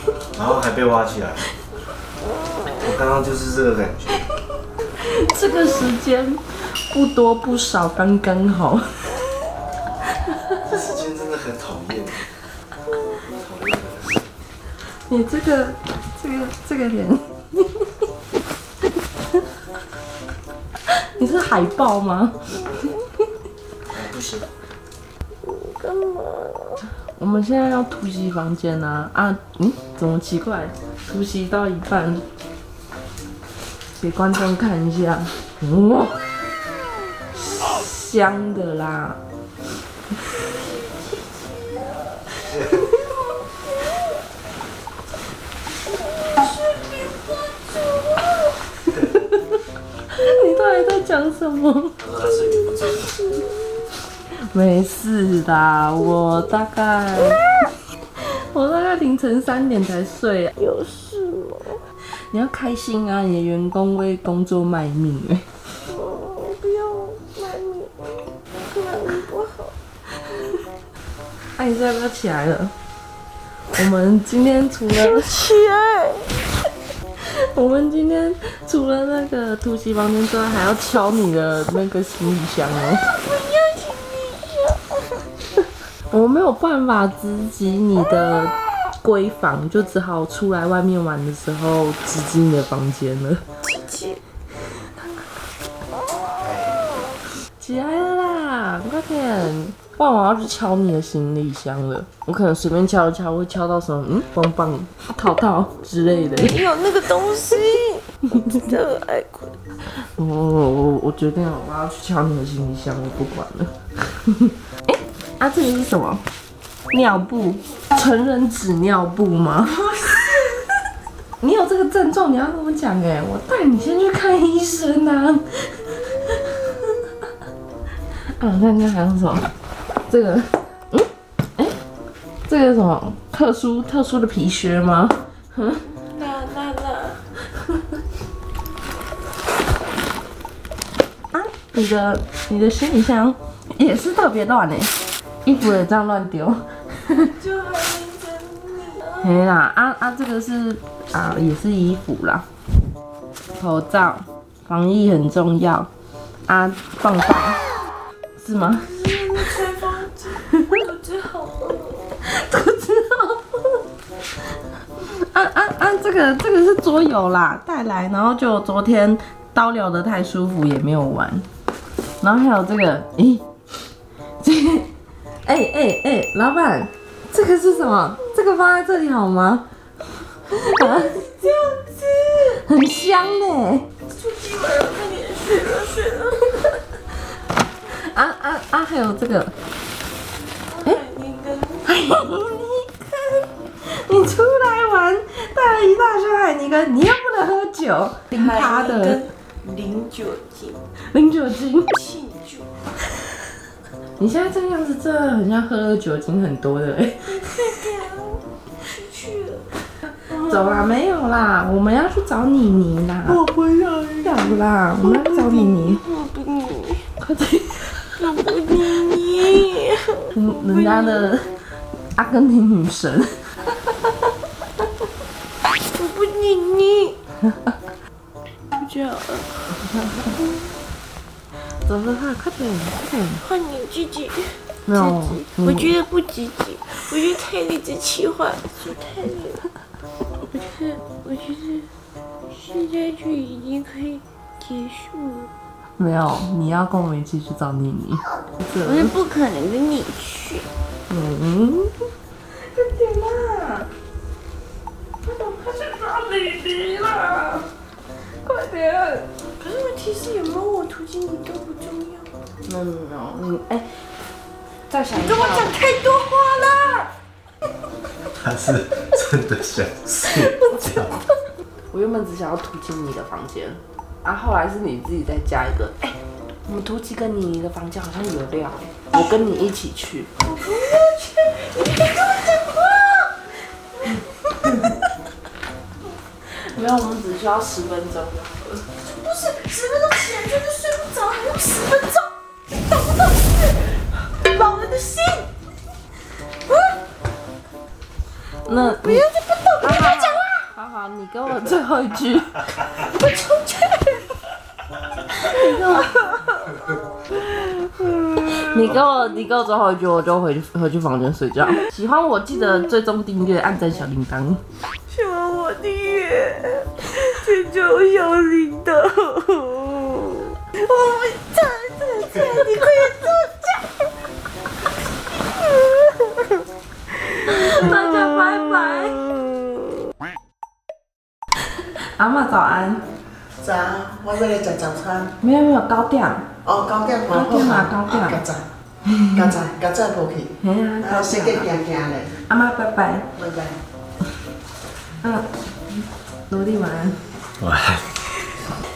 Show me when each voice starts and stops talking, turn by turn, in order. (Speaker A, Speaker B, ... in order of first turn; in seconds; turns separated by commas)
Speaker A: 0.3-1.4, Speaker A: 2.7-4.2, Speaker B: 5.0-9.1, Speaker A: 10.6-12.2, Speaker A: 13.3-14.2, Speaker B: 14.9-18.0, Speaker B: 20.9-22.4, Speaker A: 23.9-24.5, Speaker C: 25.4-26.8, Speaker B: 27.0-32.2, Speaker B: 34.0-36.2, Speaker B: 37.3-39.2, Speaker C: 40.3-44.2, Speaker C: 45.9-48.6, Speaker B: 48.9-49.5, Speaker B: 50.1-52.0, Speaker A: 52.0-53.0, Speaker C: 52.2-53.9, Speaker B: 54.5-57.5, Speaker B: 58.2-60.5, Speaker C: 60.6-61.8, Speaker B: 62.1-65.5, Speaker C: 65.9-69.7, Speaker B: 71.5-72.7, Speaker B: 73.7-75.3, Speaker C: 75.0-76.5, Speaker B: 77.2-83.0, Speaker C: 83.1-85.2, Speaker B: 86.1-93.4, Speaker C: 93.6-94.2, Speaker A: 96.4-96.8, Speaker B: 97.6-106.6, Speaker C: 106.3-109.6, Speaker B: 110.0-116.2, Speaker B: 116.9-119.8, Speaker C: 119.7-120.6, Speaker B: 121.4-126.9, Speaker B: 128.3-129.5, Speaker B: 130.1-131.8, Speaker B: 132.4-135.8, Speaker C: 135.9-137.2, Speaker B: 141.3-147.2, Speaker C: 147.1-149.3, Speaker B: 149.2-152.4, Speaker B: 153.5-155.9, Speaker B: 156.4-157.6, Speaker B: 158.4-158.9, Speaker C: 158.8-162.1, Speaker B: 162.2-163.8, Speaker B: 165.0-171.4, Speaker B: 172.2-173.4, Speaker B: 174.4-174.9, Speaker B: 175.4-179.7, Speaker C: 180.5-182.4, Speaker B: 180.5-181.2, Speaker B: 182.5-183.9, Speaker C: 184.1-186.7, Speaker B: 187.9-189.5, Speaker C: 190.7-191.9, Speaker B: 191.8-199.2, Speaker C: 198.3-200.8, Speaker B: 201.1-201.9, Speaker C: 201.9-202.7, Speaker B: 204.2-207.6, Speaker C: 207.2-209.7, Speaker C: 210.3-210.9, Speaker B: 210.4-213.4, Speaker C: 213.6-214.0, Speaker B: 214.2-216.0, Speaker C: 215.0-217.1, Speaker B: 217.2-218.1, Speaker C: 218.2-221.3, Speaker B: 220.3-221.5, Speaker B: 222.1-224.1, Speaker C: 225.9-227.2, Speaker C: 228.7-230.6, Speaker B: 229.9-230.2, Speaker B: 231.8-233.4, Speaker C: 233.4-239.6, Speaker B: 234.8-235.9, Speaker C: 240.5-241.9, Speaker C: 242.5-245.5, Speaker B: 246.0-249.1, Speaker C: 248.8-250.7, Speaker B: 251.1-251.9, Speaker B: 252.6-253.9, Speaker B: 255.2-257.7, Speaker B: 258.4-259.3, Speaker C: 259.6-262.3, Speaker B: 262.6-263.9, Speaker B: 264.9-265.7, Speaker C: 265.1-267.1, Speaker A: 268.4-271.2, Speaker C: 270.2-271.1, Speaker B: 271.9-280.3, Speaker C: 280.4-284.3, Speaker B: 284.6-285.0, Speaker B: 286.6-288.8, Speaker C: 289.0-295.5, Speaker B: 298.6-299.3, Speaker C: 298.7-300.5, Speaker B: 299.8-302.6, Speaker C: 302.9-304.4, Speaker B: 305.4-306.1, Speaker C: 305.4-309.2, Speaker B: 308.6-314.6, Speaker C: 315.1-323.9, Speaker C: 325.5-326.5, Speaker B: 327.5-329.2, Speaker C: 327.5-328.0, Speaker B: 331.8-333.0, Speaker D: 333.6-335.3, Speaker B: 335.4-336.4, Speaker D: 336.6-338.6, Speaker B: 337.3-338.4, Speaker B: 339.1-339.5, Speaker D: 339.3-342.3, Speaker B: 340.6-341.8, Speaker B: 342.4-343.3, Speaker D: 343.3-343.8, Speaker B: 345.2-347.2, Speaker A: 347.6-348.1